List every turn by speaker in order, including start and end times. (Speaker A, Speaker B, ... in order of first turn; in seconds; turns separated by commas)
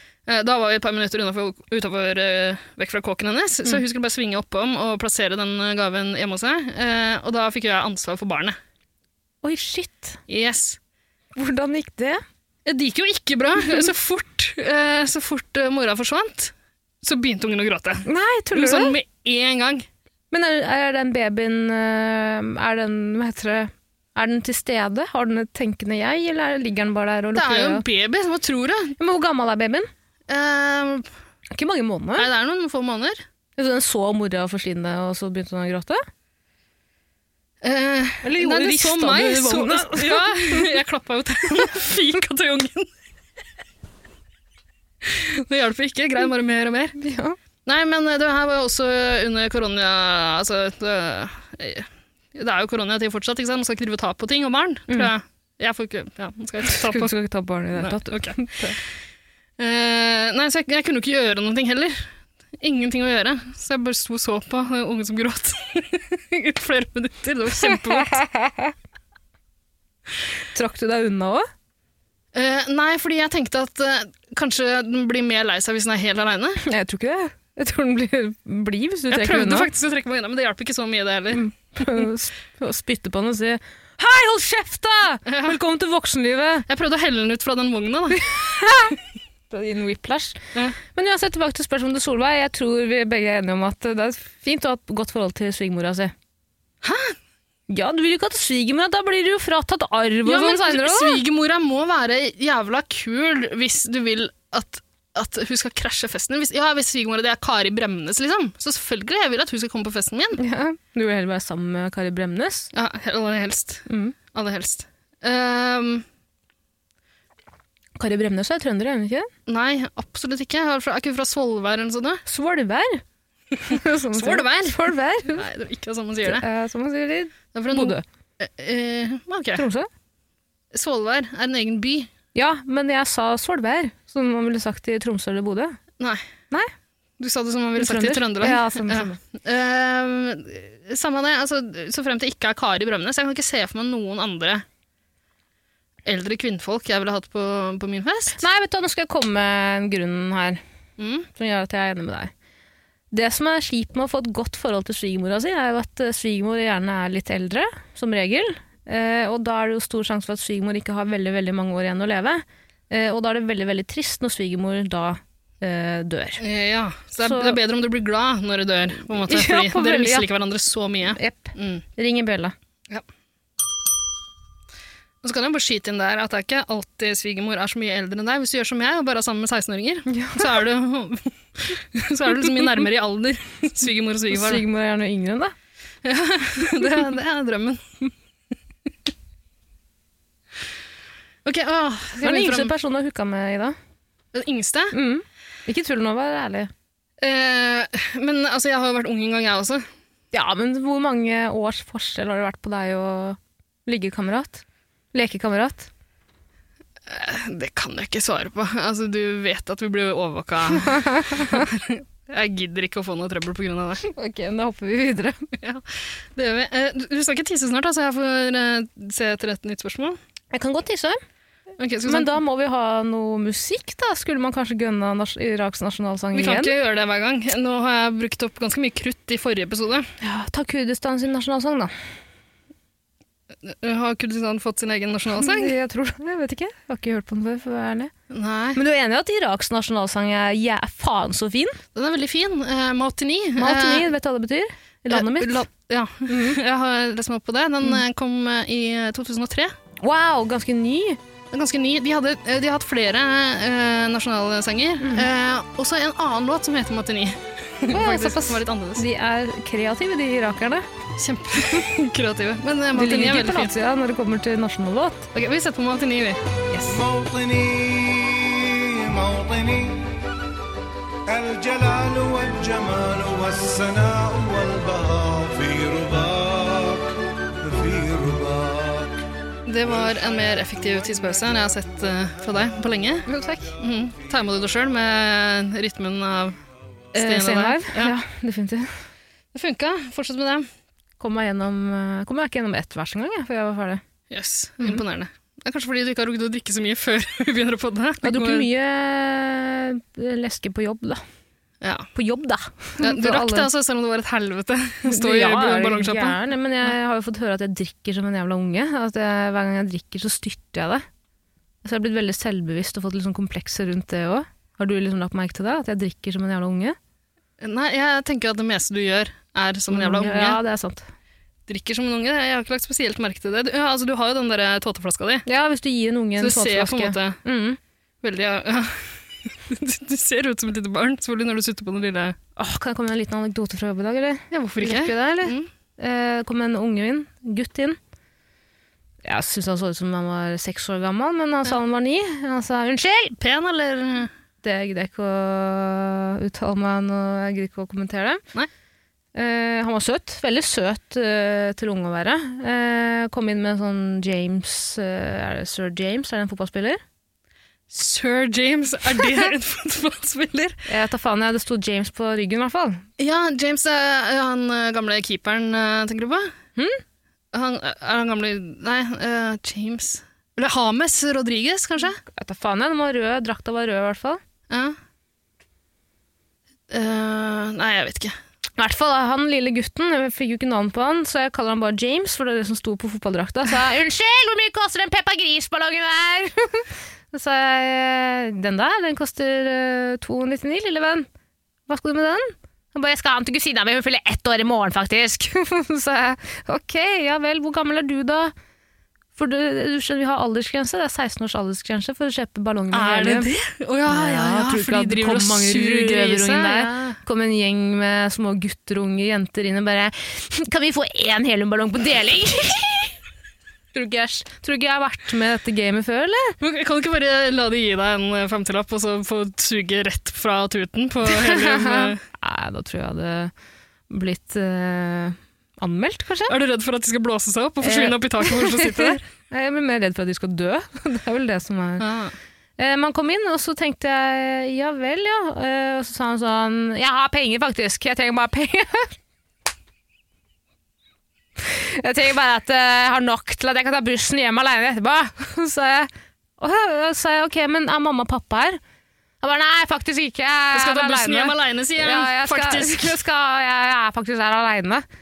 Speaker A: 0.3-8.6, Speaker B: 9.4-10.2, Speaker A: 10.3-10.8, Speaker B: 11.4-12.2, Speaker A: 12.7-19.9, Speaker B: 18.1-19.0, Speaker B: 20.3-27.8, Speaker A: 27.4-29.0, Speaker B: 29.0-29.9, Speaker A: 30.3-31.1, Speaker B: 31.5-32.3, Speaker A: 32.2-33.2, Speaker B: 33.6-36.0, Speaker A: 37.6-42.9, Speaker B: 38.2-40.7, Speaker A: 45.0-47.0, Speaker B: 47.0-47.4, Speaker A: 47.6-57.1, Speaker B: 56.7-58.8, Speaker A: 57.8-58.6, Speaker A: 59.6-68.2, Speaker B: 67.6-68.7, Speaker B: 70.5-71.5, Speaker A: 72.3-76.6, Speaker B: 76.6-79.7, Speaker A: 79.1-81.4, Speaker B: 81.3-86.7, Speaker A: 85.3-85.6, Speaker A: 86.7-88.3, Speaker B: 88.2-89.0, Speaker B: 89.5-96.1, Speaker A: 96.8-97.2, Speaker B: 97.7-101.2, Speaker A: 100.3-110.4, Speaker B: 110.4-112.7, Speaker A: 112.7-116.0, Speaker B: 113.9-114.2, Speaker B: 118.0-119.3, Speaker A: 119.5-122.2, Speaker B: 122.3-123.0, Speaker B: 123.6-125.5, Speaker A: 124.1-126.5, Speaker B: 126.2-128.0, Speaker A: 127.5-129.7, Speaker B: 129.6-129.9, Speaker A: 130.7-132.1, Speaker B: 132.3-135.8, Speaker A: 136.0-136.3, Speaker A: 137.2-144.6, Speaker B: 137.8-139.2, Speaker A: 146.1-148.4, Speaker B: 148.4-150.6, Speaker A: 151.0-151.3, Speaker B: 151.3-152.3, Speaker B: 153.1-166.4, Speaker A: 166.4-171.8, Speaker B: 167.2-167.6, Speaker B: 169.3-170.3, Speaker B: 171.1-172.5, Speaker A: 175.2-184.6, Speaker B: 180.1-180.5, Speaker B: 184.3-185.5, Speaker A: 186.1-187.9, Speaker A: 191.4-192.7, Speaker B: 192.2-193.8, Speaker A: 194.3-194.9, Speaker B: 194.9-196.7, Speaker A: 197.2-199.9, Speaker B: 200.3-205.9, Speaker A: 207.1-214.1, Speaker B: 210.8-211.7, Speaker B: 214.1-215.5, Speaker A: 215.6-220.2, Speaker B: 220.5-221.2, Speaker A: 221.8-222.4, Speaker B: 222.1-226.7, Speaker A: 226.3-230.1, Speaker B: 230.2-231.9, Speaker A: 233.6-235.7, Speaker B: 235.4-238.1, Speaker A: 238.3-238.8, Speaker B: 238.8-241.8, Speaker A: 241.9-244.1, Speaker B: 243.6-245.7, Speaker A: 245.1-249.7, Speaker B: 246.3-246.6, Speaker B: 250.0-251.2, Speaker A: 251.5-259.0, Speaker B: 255.0-255.3, Speaker B: 257.9-260.9, Speaker A: 261.2-263.7, Speaker B: 262.9-265.3, Speaker A: 265.3-267.0, Speaker C: 266.8-270.2, Speaker C: 271.3-279.3, Speaker A: 279.7-283.3, Speaker C: 279.8-284.3, Speaker B: 283.2-283.7, Speaker A: 283.8-286.6, Speaker A: 287.1-288.1, Speaker B: 287.1-289.0, Speaker A: 289.5-290.7, Speaker B: 291.2-294.0, Speaker A: 294.3-298.7, Speaker B: 298.2-301.2, Speaker A: 301.8-302.1, Speaker B: 302.1-303.7, Speaker A: 303.0-306.4, Speaker B: 305.1-311.0, Speaker B: 311.8-317.0, Speaker A: 317.6-320.6, Speaker B: 319.9-321.1, Speaker A: 321.7-325.5, Speaker B: 325.5-327.8, Speaker A: 326.4-327.4, Speaker A: 328.2-332.4, Speaker B: 332.6-338.0, Speaker A: 334.5-335.7, Speaker B: 339.2-343.4, Speaker A: 343.4-344.3, Speaker B: 344.6-348.4, Speaker B: 349.4-357.0, Speaker A: 357.9-360.8, Speaker B: 360.9-363.0, Speaker A: 363.2-366.5, Speaker B: 366.8-367.0, Speaker A: 367.5-372.2, Speaker B: 372.3-374.4, Speaker A: 374.7-375.0, Speaker A: 376.9-378.4, Speaker B: 378.8-391.3, Speaker B: 391.9-398.5, Speaker B: 399.4-403.5, Speaker A: 402.9-407.2, Speaker B: 404.1-413.1, Speaker B: 413.9-416.6, Speaker A: 416.6-422.2, Speaker B: 421.3-423.5, Speaker B: 424.1-426.6, Speaker A: 426.5-429.2, Speaker B: 427.8-432.1, Speaker A: 432.0-432.3, Speaker B: 432.8-439.2, Speaker B: 441.6-448.8, Speaker B: 449.4-455.1, Speaker A: 450.7-453.2